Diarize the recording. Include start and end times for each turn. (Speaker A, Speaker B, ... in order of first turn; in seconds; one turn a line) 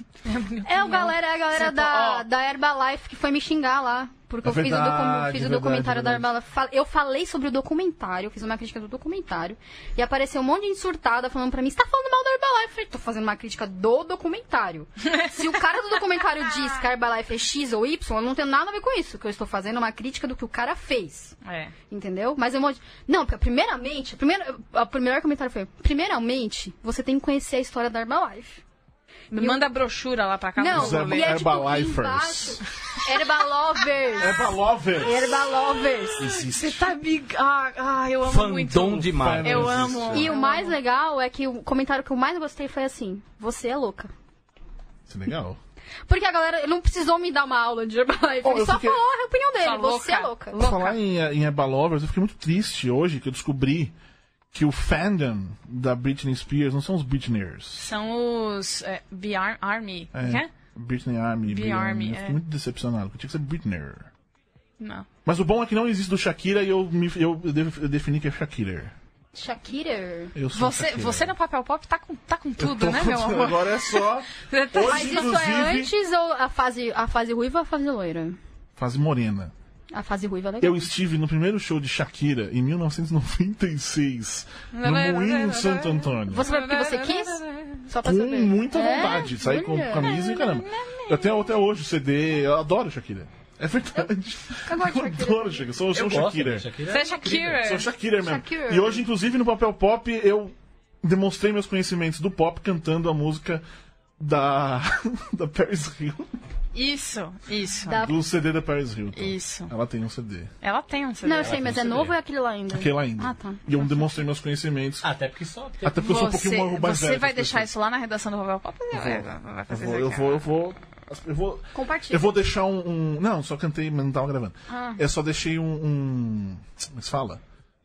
Speaker A: 0.2-2.2
Speaker B: 0.6-21.4
Speaker C: 4.4-6.3
Speaker A: 21.4-21.7
Speaker B: 21.9-28.6
Speaker A: 29.3-31.4
Speaker B: 29.4-29.6
Speaker B: 30.6-36.3
Speaker C: 30.7-32.6
Speaker C: 34.2-35.6
Speaker C: 36.2-36.9
Speaker A: 36.2-40.8
Speaker D: 38.2-40.1
Speaker C: 38.9-40.4
Speaker B: 40.1-44.1
Speaker C: 45.1-45.6
Speaker B: 46.1-50.6
Speaker C: 48.4-49.0
Speaker A: 49.6-51.0
Speaker C: 50.6-53.9
Speaker C: 54.5-57.9
Speaker A: 57.8-60.5
Speaker C: 60.1-64.1
Speaker A: 61.5-62.4
Speaker A: 64.8-65.1
Speaker C: 65.2-68.9
Speaker B: 69.3-70.3
Speaker C: 70.3-71.3
Speaker A: 70.5-75.4
Speaker C: 72.6-75.9
Speaker B: 74.8-78.4
Speaker C: 78.8-79.5
Speaker B: 79.9-80.8
Speaker C: 80.6-86.5
Speaker A: 84.7-87.8
Speaker B: 86.3-90.2
Speaker C: 88.0-96.7
Speaker A: 90.0-91.4
Speaker B: 94.6-95.7
Speaker D: 95.9-97.7
Speaker A: 96.9-97.9
Speaker C: 97.6-103.6
Speaker B: 98.2-99.0
Speaker C: 104.2-106.3
Speaker A: 106.7-108.0
Speaker B: 107.9-108.2
Speaker C: 108.0-110.5
Speaker A: 109.1-109.7
Speaker A: 110.6-111.6
Speaker B: 111.2-113.6
Speaker D: 111.4-112.1
Speaker C: 112.7-115.1
Speaker D: 115.0-115.9
Speaker C: 115.8-117.7
Speaker A: 115.9-120.4
Speaker C: 118.9-127.4
Speaker B: 121.7-122.3
Speaker B: 124.7-125.0